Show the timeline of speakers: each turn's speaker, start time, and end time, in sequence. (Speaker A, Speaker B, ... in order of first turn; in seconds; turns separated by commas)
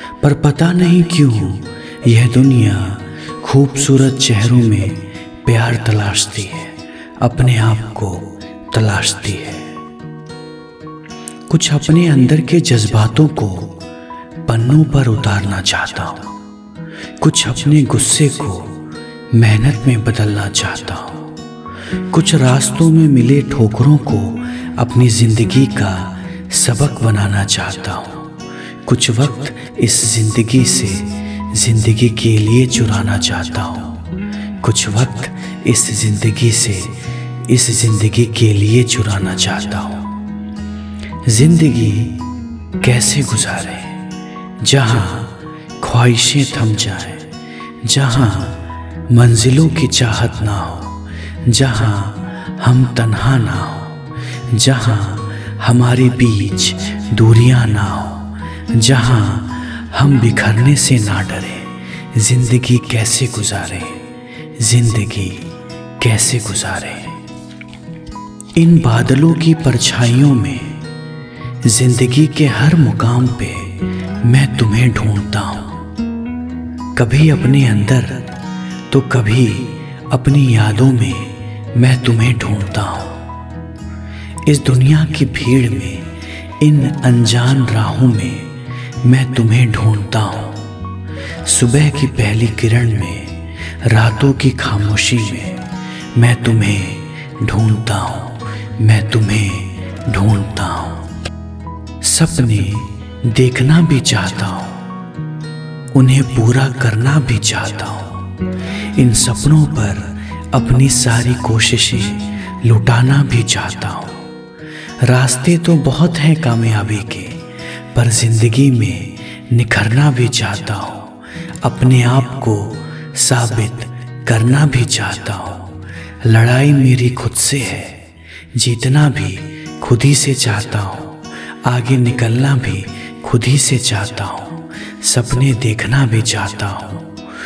Speaker A: 0.2-9.7, Speaker A: 11.5-13.8, Speaker A: 14.4-16.3, Speaker A: 17.2-21.3, Speaker A: 22.1-28.3, Speaker A: 28.9-34.0, Speaker A: 34.6-40.1, Speaker A: 41.2-42.2, Speaker A: 42.8-44.0, Speaker A: 44.6-47.3, Speaker A: 47.8-67.2, Speaker A: 68.5-70.8, Speaker A: 71.6-75.9, Speaker A: 76.9-78.3, Speaker A: 78.9-83.3, Speaker A: 84.4-90.7, Speaker A: 91.4-101.1, Speaker A: 102.0-104.8, Speaker A: 105.9-108.3, Speaker A: 108.9-114.3, Speaker A: 115.0-128.0, Speaker A: 128.5-137.2